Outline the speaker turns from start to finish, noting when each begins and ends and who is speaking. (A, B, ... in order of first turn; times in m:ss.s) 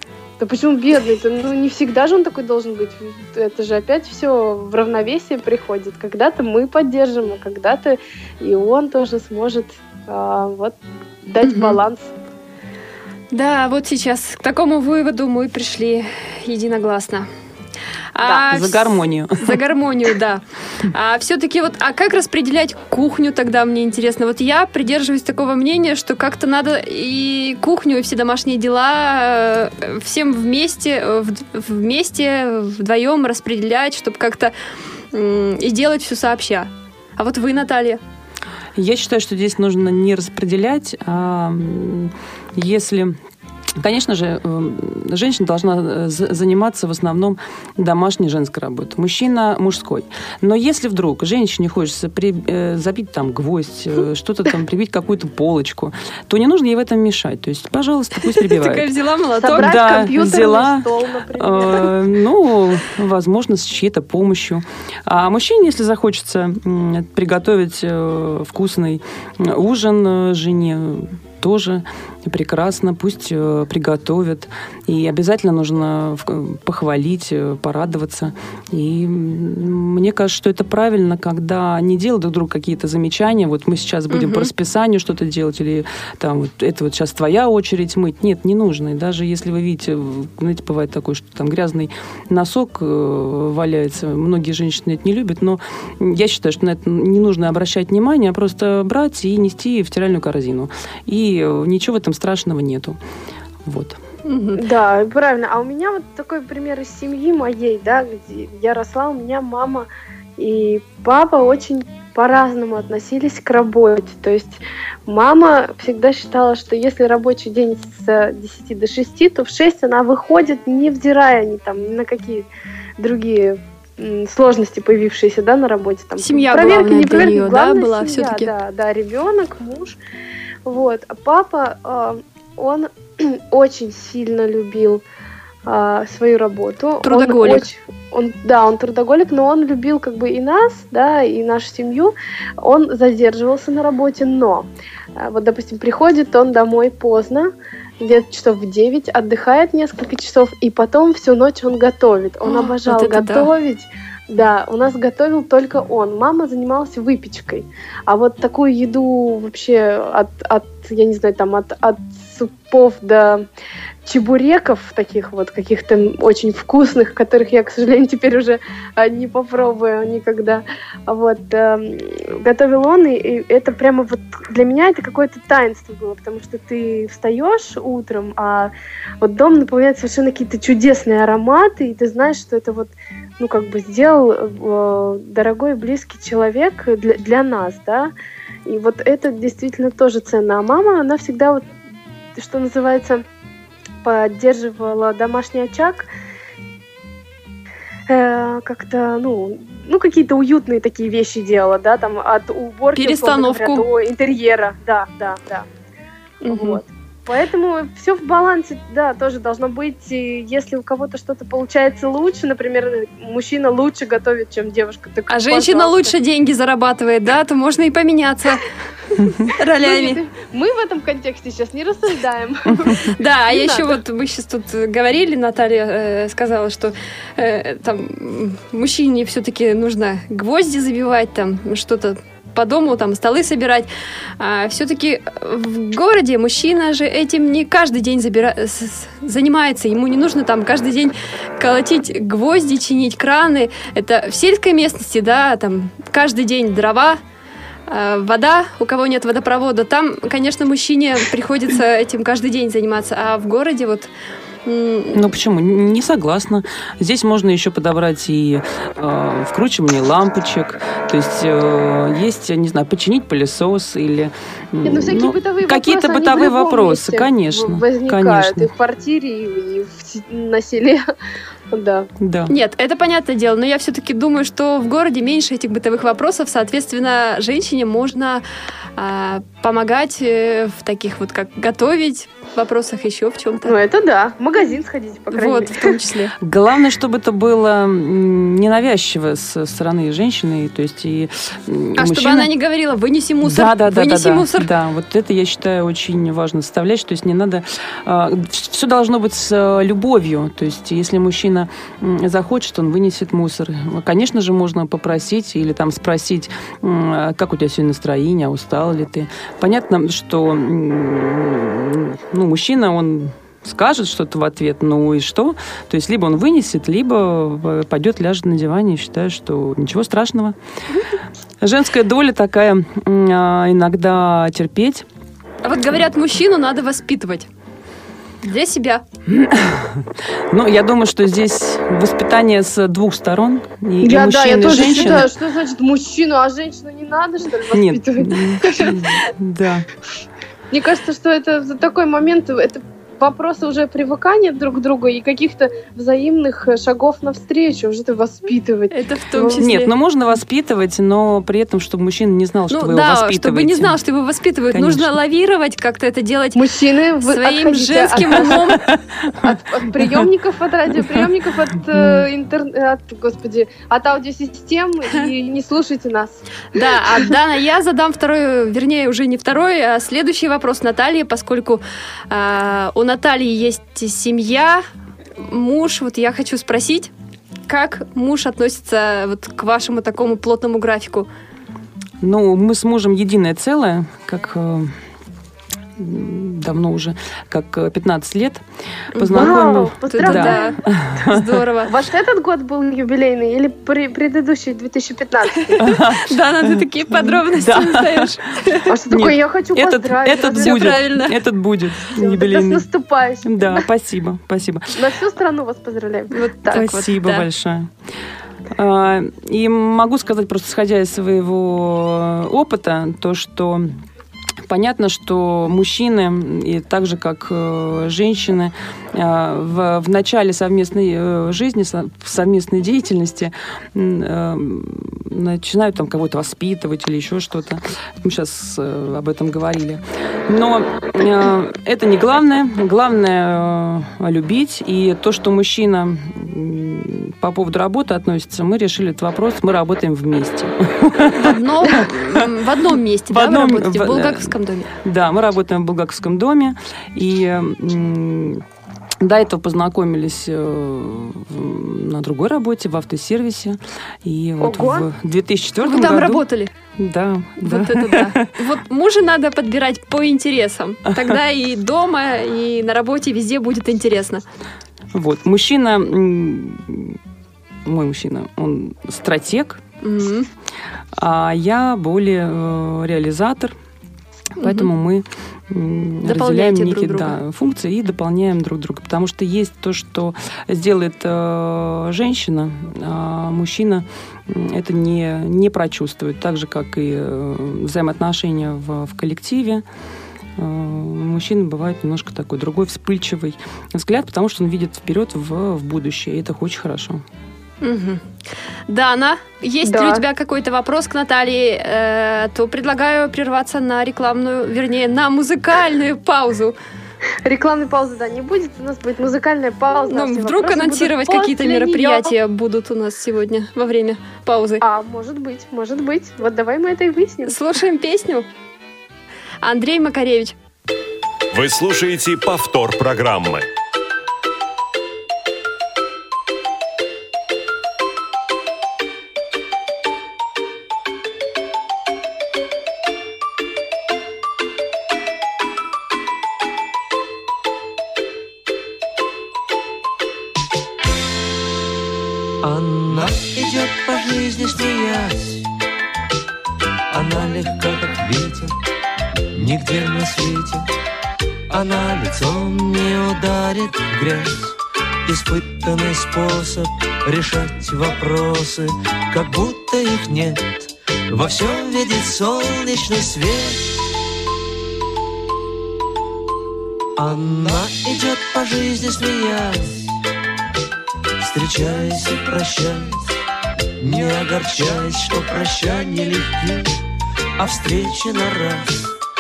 0:00.4-0:12.1 A
0:11.4-0:11.8 B
0:13.3-0:17.3 B
0:18.2-0:34.5 B
0:18.3-0:19.6 C
0:35.1-0:38.0 B
0:38.8-0:43.2 C
0:43.8-0:58.9 C
0:58.4-0:59.8 B
0:59.4-1:02.0 A
0:59.5-1:43.0 C
1:24.1-1:24.5 B
1:43.6-1:44.0 C
1:44.3-1:44.6 B
1:44.6-2:02.5 A
2:03.0-2:10.0 A
2:06.2-2:08.5 B
2:10.7-2:15.0 A
2:15.7-2:43.5 A
2:17.0-2:17.7 B
2:32.4-2:33.5 B
2:44.1-3:08.1 A
3:08.7-3:11.6 A
3:12.4-3:13.2 A
3:14.0-3:16.1 A
3:18.1-3:25.7 A
3:23.0-3:23.9 B
3:26.4-3:26.8 B
3:26.5-3:36.1 A
3:35.3-3:38.7 B
3:39.2-3:44.0 A
3:39.5-3:40.2 B
3:43.1-4:07.2 B
4:07.9-4:14.1 B
4:14.6-4:15.2 B
4:15.1-4:28.7 C
4:24.8-4:31.1 A
4:31.7-4:32.1 A
4:32.2-4:32.5 C
4:32.5-4:38.4 B
4:39.0-4:43.8 B
4:43.6-4:46.0 A
4:45.3-4:46.4 B
4:46.4-4:52.5 C
4:52.0-4:54.7 B
4:53.4-5:20.6 C
5:21.6-5:25.1 C
5:25.6-5:27.5 B
5:28.4-5:29.0 B
5:29.3-5:35.3 C
5:34.0-5:39.3 A
5:37.7-5:39.9 C
5:40.7-5:49.7 A
5:48.9-5:49.9 B
5:49.6-5:54.0 C
5:52.7-5:56.6 B
5:54.7-5:55.1 C
5:56.6-5:58.8 A
5:57.2-5:58.8 B
5:58.5-6:00.3 C
5:59.4-6:06.4 A
6:02.0-6:02.2 C
6:06.7-6:14.8 B
6:15.4-6:17.1 B
6:17.7-6:21.3 B
6:22.2-6:24.9 C
6:26.0-6:31.6 C
6:29.2-6:31.9 B
6:29.3-6:30.8 A
6:31.8-6:35.9 A
6:35.7-6:38.9 B
6:35.8-6:38.4 C
6:38.9-6:41.0 A
6:39.1-6:42.8 C
6:40.5-6:41.4 B
6:42.2-6:43.9 A
6:43.4-6:45.1 C
6:45.0-6:46.8 A
6:46.3-6:47.5 B
6:46.7-6:47.9 C
6:48.7-6:54.0 C
6:54.7-7:22.5 C
7:21.2-7:24.9 B
7:23.3-7:24.5 C
7:25.0-7:28.6 C
7:29.2-7:36.4 C
7:34.6-7:35.1 A
7:35.8-7:36.7 B
7:37.0-7:38.5 C
7:37.6-7:44.4 B
7:41.1-7:41.4 C
7:45.1-7:47.2 C
7:47.8-7:49.8 C
7:50.0-7:50.5 B
7:51.1-7:53.8 C
7:54.6-8:09.8 C
7:54.6-7:54.9 B
7:56.2-7:57.4 B
8:10.6-8:17.2 C
8:17.8-8:18.3 B
8:18.9-8:26.8 B
8:19.8-8:20.2 A
8:27.4-8:32.3 A
8:30.1-8:34.8 B
8:34.8-8:37.6 A
8:37.5-8:38.5 B
8:39.6-8:40.6 B
8:41.5-8:43.7 D
9:02.6-9:05.7 E
9:07.1-9:08.8 E
9:09.6-9:10.9 E
9:11.7-9:24.1 E
9:27.2-9:30.2 E
9:31.4-9:33.4 E
9:34.0-9:36.9 E
9:37.6-9:39.2 E